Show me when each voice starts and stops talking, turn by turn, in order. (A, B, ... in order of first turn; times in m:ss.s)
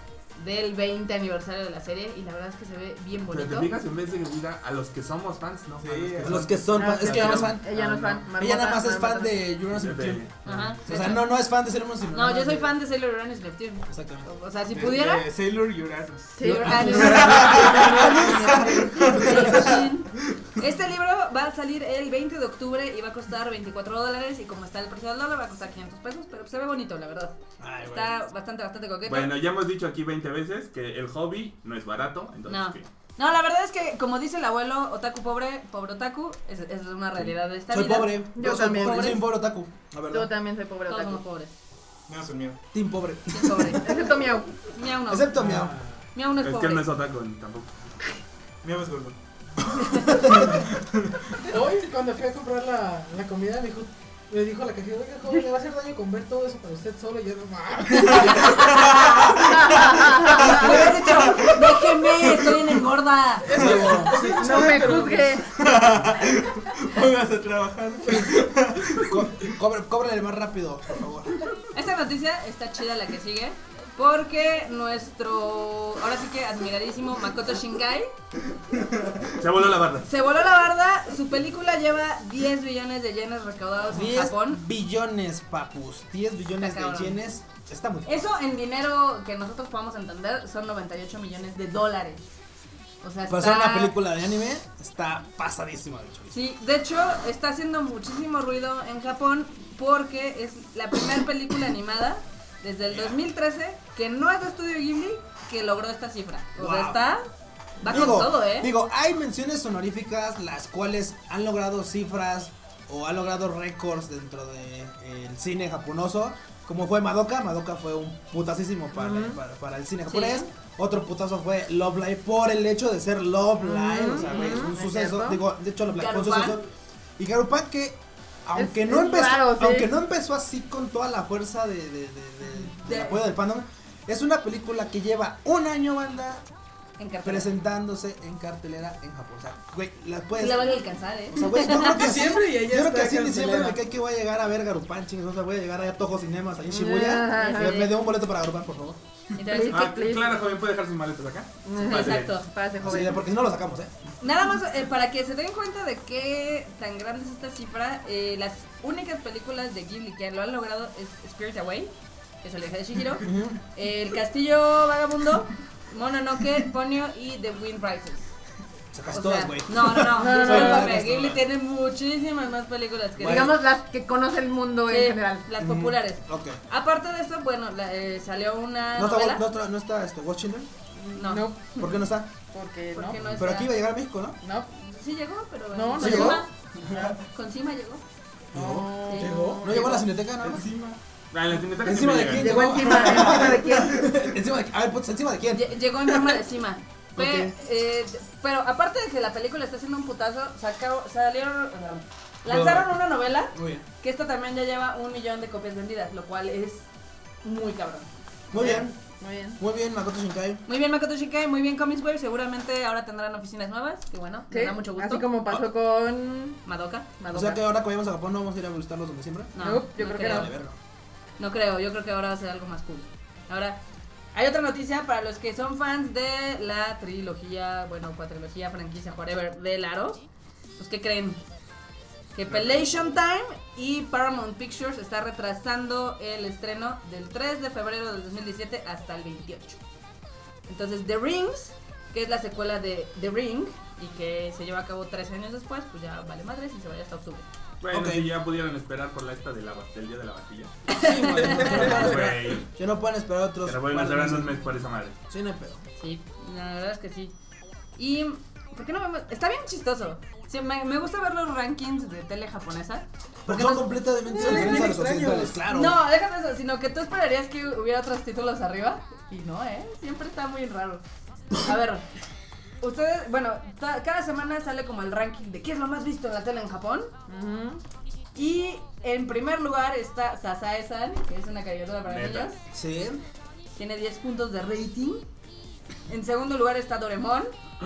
0:00.4-0:03.7 A
0:03.3-0:08.2 B
0:05.8-0:06.5 C
0:06.2-0:07.7 D
0:06.7-0:09.4 E
0:08.4-0:10.2 D
0:09.7-0:10.8 B
0:10.4-0:11.3 A
0:10.9-0:12.8 D
0:12.1-0:15.3 A
0:13.9-0:14.3 D
0:14.7-0:19.9 C
0:16.4-0:18.2 E
0:16.4-0:27.4 A
0:16.7-0:17.8 D
0:19.2-0:19.7 D
0:27.6-0:28.2 D
0:27.9-0:29.3 A
0:29.0-0:32.9 B
0:32.4-0:39.2 A
0:37.7-0:40.3 D
0:38.3-0:39.2 E
0:40.1-0:41.2 E
0:40.9-0:41.5 A
0:42.1-0:42.6 C
0:42.7-0:44.2 D
0:43.3-0:44.0 A
0:43.8-0:44.5 E
0:44.7-0:45.4 A
0:45.1-0:45.7 D
0:46.1-0:46.9 A
0:46.4-0:47.7 B
0:48.6-0:49.2 C
0:49.7-0:50.5 D
0:51.4-0:58.9 F
0:58.1-0:59.4 A
0:58.5-0:59.5 C
0:59.5-1:00.8 E
1:00.3-1:03.6 A
1:00.7-1:01.7 C
1:03.4-1:05.4 F
1:03.5-1:04.3 D
1:03.6-1:04.3 C
1:04.2-1:05.2 A
1:04.4-1:05.5 E
1:05.4-1:09.5 C
1:09.0-1:11.5 D
1:11.7-1:18.1 A
1:19.4-1:20.1 B
1:20.0-1:24.6 A
1:23.9-1:28.3 D
1:26.6-1:27.2 A
1:28.0-1:32.3 A
1:33.0-1:34.0 A
1:33.3-1:36.4 D
1:36.3-1:47.2 A
1:42.9-1:43.2 D
1:46.6-1:47.1 D
1:47.8-1:48.7 A
1:47.8-2:06.6 D
1:58.9-1:59.4 E
2:00.1-2:00.5 A
2:03.6-2:05.4 E
2:04.3-2:04.6 A
2:06.0-2:06.6 A
2:07.2-2:16.4 D
2:08.5-2:09.9 E
2:12.5-2:13.3 A
2:17.0-2:17.5 A
2:17.2-2:29.0 D
2:20.4-2:22.1 A
2:21.8-2:23.8 F
2:26.7-2:27.9 E
2:27.3-2:27.9 A
2:29.4-2:30.1 A
2:29.4-2:30.4 E
2:29.7-2:32.4 B
2:31.6-2:33.2 E
2:31.8-2:32.5 A
2:32.8-2:33.9 D
2:34.2-2:48.2 A
2:43.2-2:43.6 D
2:48.9-2:51.4 D
2:49.1-2:53.6 A
2:50.2-2:51.0 E
2:53.2-2:53.6 D
2:53.2-2:55.5 E
2:54.9-2:59.4 A
2:55.6-2:56.6 D
2:59.0-3:00.7 D
3:01.0-3:02.0 E
3:01.1-3:01.5 A
3:01.8-3:02.3 D
3:02.5-3:03.3 E
3:02.9-3:03.7 A
3:03.3-3:04.4 D
3:04.4-3:04.7 E
3:04.7-3:06.5 A
3:05.7-3:06.4 E
3:06.0-3:07.1 D
3:07.2-3:08.0 A
3:08.5-3:09.8 F
3:08.5-3:08.8 D
3:08.6-3:10.0 E
3:09.0-3:10.0 A
3:09.6-3:10.6 D
3:10.4-3:11.0 C
3:11.3-3:12.6 B
3:11.8-3:15.8 D
3:12.3-3:14.1 E
3:15.5-3:26.8 A
3:17.2-3:17.5 D
3:22.4-3:23.8 D
3:27.4-3:28.1 A
3:28.5-3:29.0 D
3:28.5-3:29.6 E
3:29.6-3:30.6 D
3:30.6-3:35.3 A
3:34.5-3:36.6 E
3:36.6-3:37.1 A
3:37.2-3:37.6 E
3:37.3-3:40.8 D
3:39.5-3:40.5 A
3:39.6-3:40.6 E
3:41.4-3:43.8 A
3:44.3-3:50.2 A
3:50.8-3:51.4 A
3:52.3-3:59.8 A
4:00.7-4:07.4 A
4:07.8-4:10.9 B
4:07.9-4:08.3 D
4:10.9-4:12.0 A
4:10.9-4:12.4 F
4:11.1-4:14.6 D
4:11.4-4:12.7 B
4:13.6-4:15.2 B
4:15.3-4:15.8 D
4:16.0-4:17.3 A
4:18.0-4:24.8 A
4:23.4-4:26.0 D
4:24.4-4:25.6 F
4:25.7-4:31.0 A
4:31.5-4:32.0 A
4:32.8-4:37.1 A
4:37.3-4:37.8 E
4:38.3-4:42.6 A
4:42.0-4:42.5 B
4:42.7-4:43.2 D
4:43.7-4:45.2 A
4:46.1-4:47.5 A